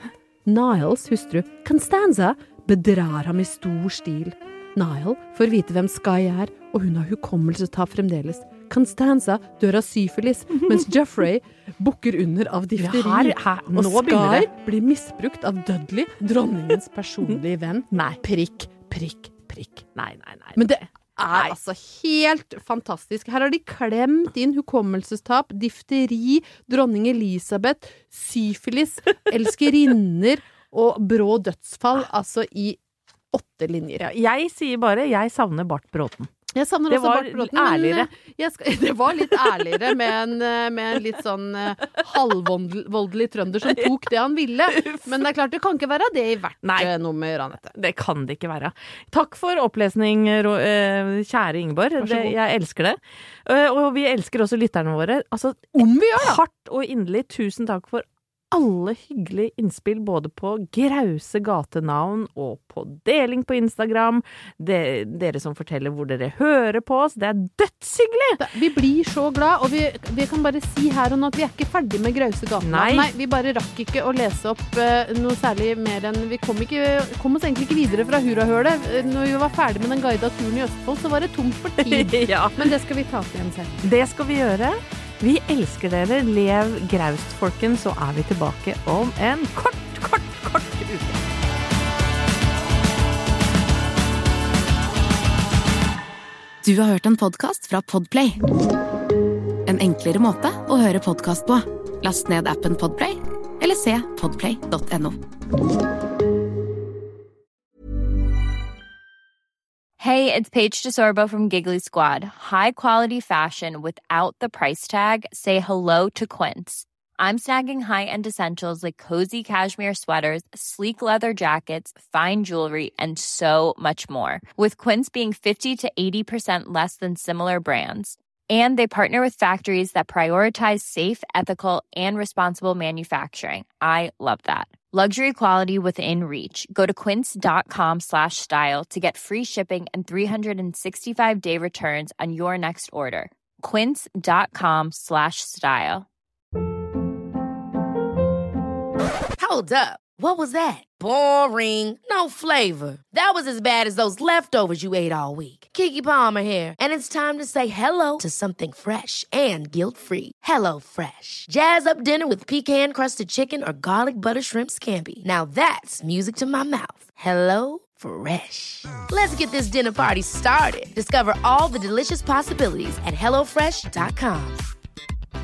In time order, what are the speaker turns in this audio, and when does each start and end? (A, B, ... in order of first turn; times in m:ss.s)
0:00.4-0:19.8 A
0:12.8-0:14.5 B
0:17.9-0:18.2 B
0:20.0-0:21.5 B
0:20.6-0:32.8 A
0:33.3-0:34.0 A
0:34.0-0:36.3 B
0:36.5-0:47.7 A
0:36.9-0:38.1 B
0:44.7-0:45.2 B
0:46.6-0:46.9 B
0:47.7-1:08.4 B
0:52.0-0:52.3 A
0:55.8-0:56.4 A
1:08.4-1:23.9 A
1:12.6-1:13.1 B
1:21.8-1:22.7 B
1:23.8-1:31.2 B
1:36.6-1:38.4 C
1:39.6-1:45.2 C
1:50.0-2:26.1 D
2:29.4-2:54.6 E